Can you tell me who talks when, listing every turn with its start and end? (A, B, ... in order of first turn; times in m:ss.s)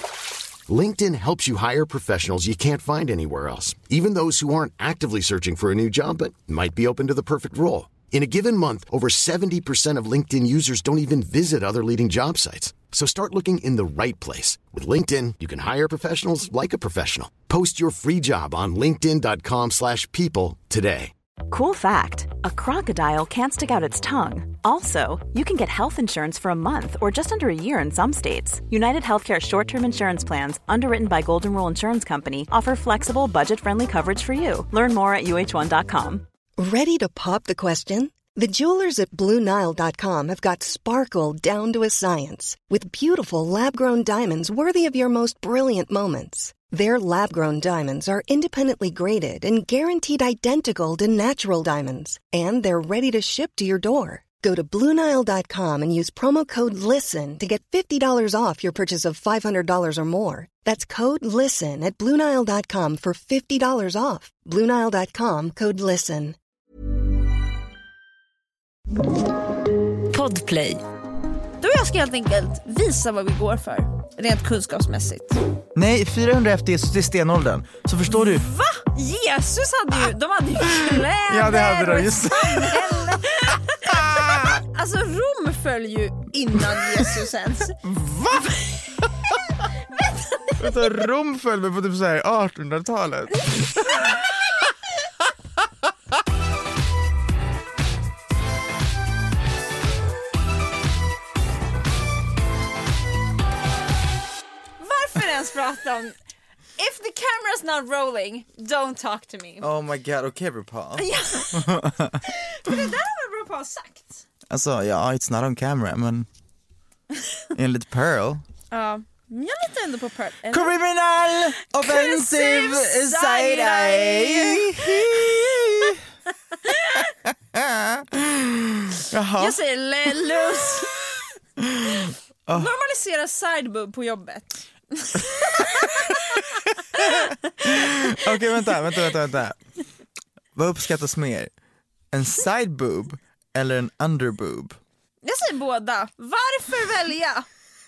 0:00.7-0:21.1 A
0:21.5-0:36.2 B
0:36.6-1:06.4 C
1:10.1-1:10.4 D
1:11.6-1:15.4 D
1:15.8-1:18.5 E
1:18.1-1:27.8 D
1:21.3-1:24.6 E
1:27.8-1:28.6 E
1:29.9-1:30.9 D
1:30.6-1:34.0 E
1:44.8-1:46.2 D
1:46.8-1:49.7 D
1:49.6-1:52.7 E
1:51.0-1:54.2 D
1:54.5-1:56.3 E
1:57.6-1:58.4 E
1:58.7-2:00.7 D
2:00.5-2:06.0 E
2:01.6-2:05.3 D
2:06.6-2:07.0 D
2:06.7-2:09.6 E
2:09.4-2:11.2 D
2:11.6-2:12.7 E
2:12.5-2:19.0 D
2:17.0-2:19.6 E
2:20.6-2:21.5 E
2:22.1-2:24.8 E
2:25.2-2:27.5 D